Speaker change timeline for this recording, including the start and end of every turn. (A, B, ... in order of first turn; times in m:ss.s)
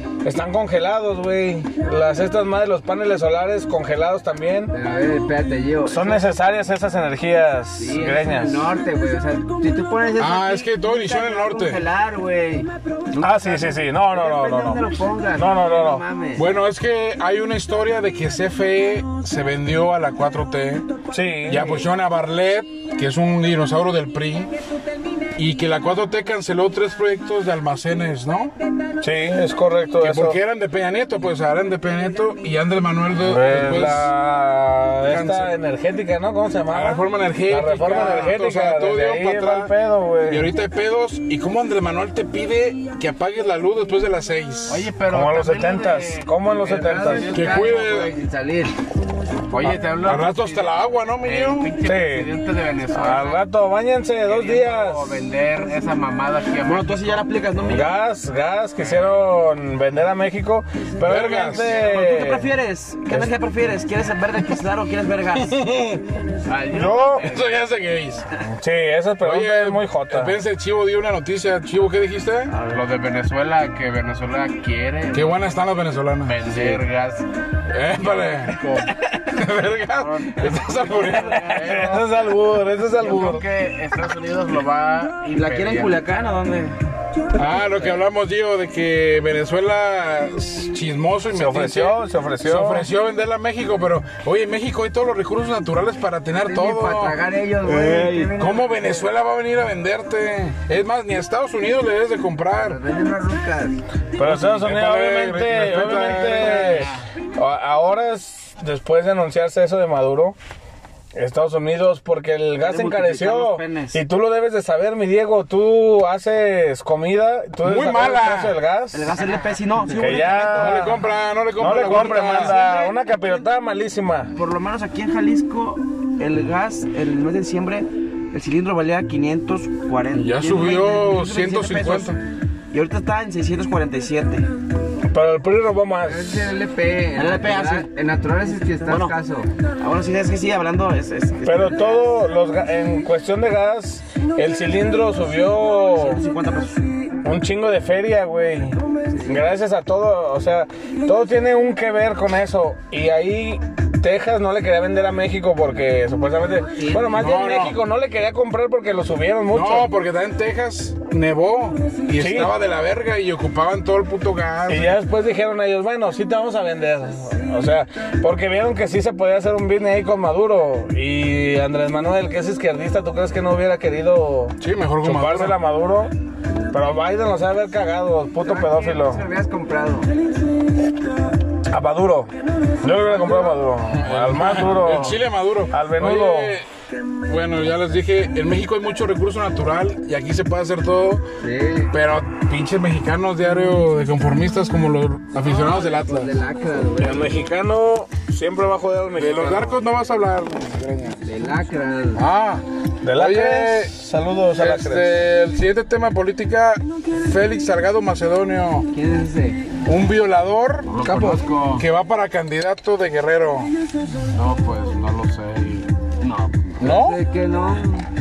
0:00.2-0:04.7 A
0:04.7-0:06.3 B
0:05.8-0:08.7 A
0:07.8-0:16.5 B
0:10.2-0:11.8 C
0:13.2-0:16.0 A
0:16.4-0:20.9 C
0:21.1-0:21.9 A
0:21.5-0:24.5 C
0:25.4-0:28.5 C
0:29.0-0:30.4 A
0:30.0-0:34.1 C
0:33.2-0:40.5 A
0:35.1-0:35.6 C
0:36.7-0:39.7 C
0:40.3-0:44.9 C
0:44.7-0:47.4 D
0:45.1-0:47.4 A
0:46.6-0:48.8 B
0:47.3-0:48.2 C
0:49.5-0:53.4 D
0:50.0-0:51.8 C
0:51.8-0:52.3 A
0:52.9-0:55.2 A
0:54.2-0:57.2 D
0:56.6-0:57.9 E
0:57.7-1:02.5 A
0:58.8-0:59.2 D
1:01.0-1:01.9 C
1:01.7-1:05.6 E
1:05.4-1:06.0 C
1:06.5-1:07.6 D
1:06.7-1:07.2 A
1:07.2-1:08.3 C
1:08.4-1:10.4 A
1:09.2-1:12.5 C
1:12.5-1:12.8 E
1:12.7-1:15.5 D
1:15.1-1:16.8 C
1:16.2-1:17.3 D
1:17.7-1:18.6 C
1:18.0-1:19.0 D
1:19.3-1:21.6 C
1:19.9-1:21.8 E
1:20.9-1:22.1 D
1:21.4-1:23.4 A
1:23.0-1:26.0 D
1:25.3-1:26.8 E
1:27.4-1:37.2 C
1:31.3-1:32.9 A
1:36.4-1:38.9 B
1:37.6-1:38.3 E
1:38.4-1:42.8 C
1:42.6-1:43.8 B
1:44.2-1:50.4 A
1:44.2-1:46.9 C
1:46.6-1:47.0 D
1:51.2-1:59.1 A
1:52.6-1:54.0 E
1:57.6-1:58.6 C
1:58.9-2:01.0 E
1:59.9-2:01.0 A
2:00.5-2:02.6 C
2:01.6-2:04.3 A
2:01.6-2:03.5 E
2:04.3-2:12.2 E
2:10.1-2:12.2 C
2:12.7-2:14.5 E
2:15.1-2:16.5 A
2:16.0-2:19.5 B
2:17.1-2:17.9 E
2:18.9-2:19.2 E
2:19.8-2:22.1 E
2:21.4-2:26.2 A
2:26.0-2:26.8 E
2:27.2-2:39.9 A
2:29.1-2:29.4 B
2:36.8-2:37.2 B
2:37.2-2:37.8 C
2:39.5-2:45.0 C
2:42.1-2:42.5 A
2:44.7-2:56.1 A
2:54.6-2:55.6 C
2:56.7-2:59.2 A
2:58.4-3:00.1 B
3:01.7-3:06.6 A
3:03.2-3:06.7 C
3:07.3-3:11.3 C
3:11.4-3:11.9 B
3:11.9-3:16.4 C
3:15.4-3:17.4 B
3:17.0-3:19.8 A
3:19.2-3:21.2 C
3:21.2-3:22.2 B
3:22.2-3:24.0 C
3:23.0-3:25.2 A
3:24.5-3:28.9 C
3:28.9-3:29.6 B
3:29.8-3:31.0 C
3:30.9-3:31.8 D
3:31.0-3:31.8 E
3:31.1-3:31.5 B
3:31.8-3:33.7 C
3:34.3-3:36.8 D
3:36.8-3:38.1 B
3:36.8-3:37.2 C